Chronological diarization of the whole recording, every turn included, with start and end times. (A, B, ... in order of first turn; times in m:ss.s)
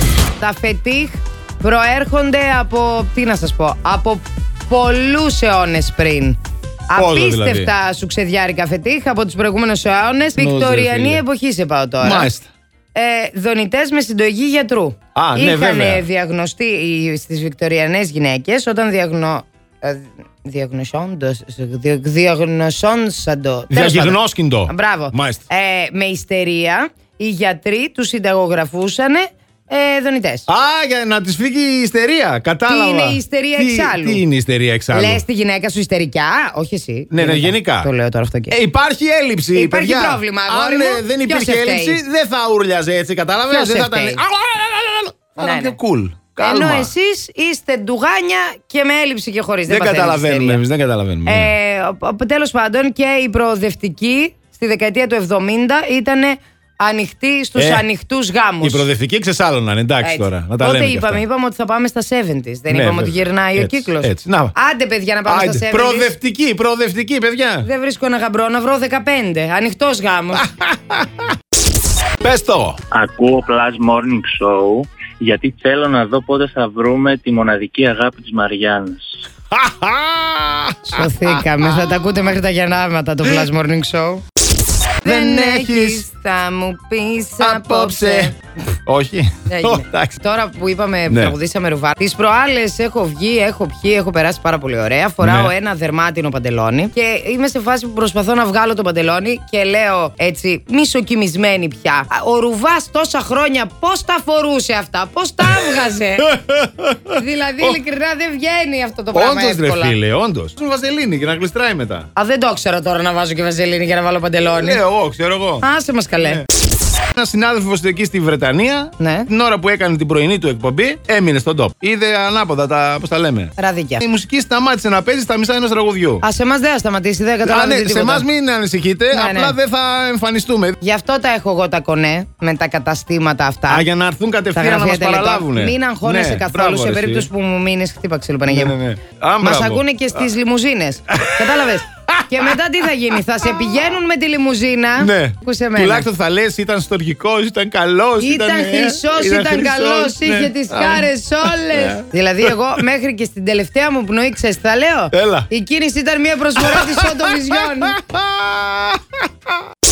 0:00.4-0:06.4 A
0:06.9-0:12.3 A
0:06.9-0:07.7 B
0:10.4-0:11.2 B
0:12.0-0:12.5 B
0:12.9-0:30.5 A
0:15.1-0:16.0 B
0:23.7-0:25.4 B
0:30.5-0:35.2 B
0:32.6-0:34.2 A
0:34.9-0:38.6 A
0:37.1-0:37.9 B
0:38.5-0:46.9 B
0:39.5-0:42.0 A
0:43.5-0:44.2 A
0:45.4-0:45.8 A
0:46.4-0:50.6 A
0:49.7-0:51.5 B
0:51.2-0:58.9 A
0:57.6-0:57.8 B
0:58.6-1:01.2 B
1:00.0-1:06.1 A
1:02.7-1:04.5 B
1:05.2-1:07.7 B
1:07.6-1:10.5 A
1:10.3-1:11.3 B
1:12.2-1:12.8 B
1:12.9-1:19.0 C
1:19.5-1:21.0 B
1:20.9-1:24.2 A
1:25.0-1:28.4 A
1:25.0-1:26.0 B
1:27.4-1:28.3 B
1:28.8-1:30.2 B
1:29.5-1:46.3 A
1:31.1-1:31.4 B
1:35.2-1:35.5 B
1:45.4-1:47.8 B
1:47.1-1:50.0 A
1:49.1-1:52.1 B
1:52.2-1:54.8 A
1:54.6-1:55.6 B
1:55.6-1:56.4 A
1:57.1-2:06.2 B
1:59.0-1:59.3 A
2:03.6-2:04.0 A
2:06.2-2:08.3 A
2:07.4-2:10.8 B
2:09.1-2:09.6 A
2:10.8-2:13.8 A
2:13.7-2:17.3 B
2:14.5-2:18.8 A
2:18.5-2:19.8 B
2:19.4-2:26.1 A
2:21.1-2:22.6 B
2:25.0-2:32.5 B
2:28.2-2:38.0 A
2:35.1-2:35.5 B
2:36.6-2:39.2 B